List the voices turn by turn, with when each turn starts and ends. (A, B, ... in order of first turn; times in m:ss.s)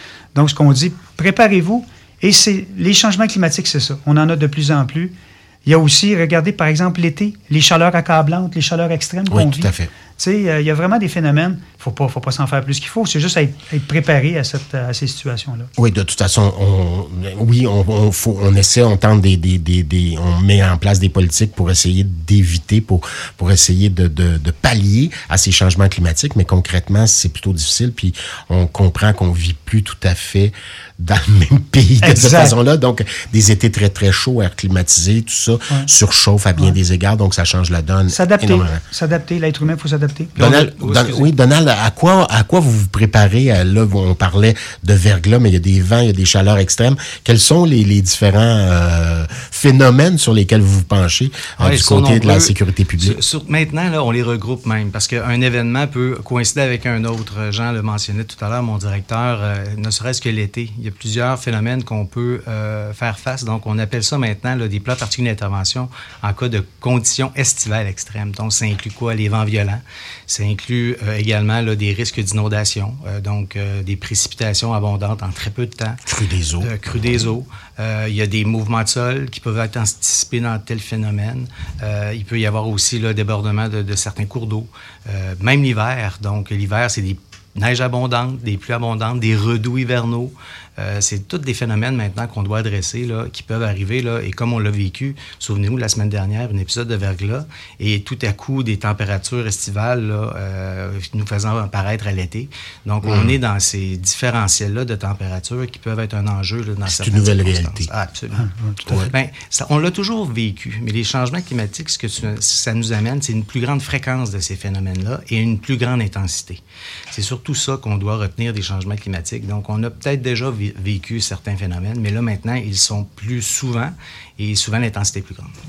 0:00.3-0:05.1 A
0:05.6-0:15.7 A
0:09.3-0:09.9 B
0:15.8-0:38.8 B
0:32.0-0:32.6 A
0:38.1-0:40.4 A
0:40.4-0:41.3 C
0:40.4-0:53.2 B
0:51.6-1:16.0 C
1:16.1-1:16.7 B
1:16.6-2:05.5 C
1:43.0-1:43.3 B
1:46.9-1:47.9 B
1:48.4-1:48.8 A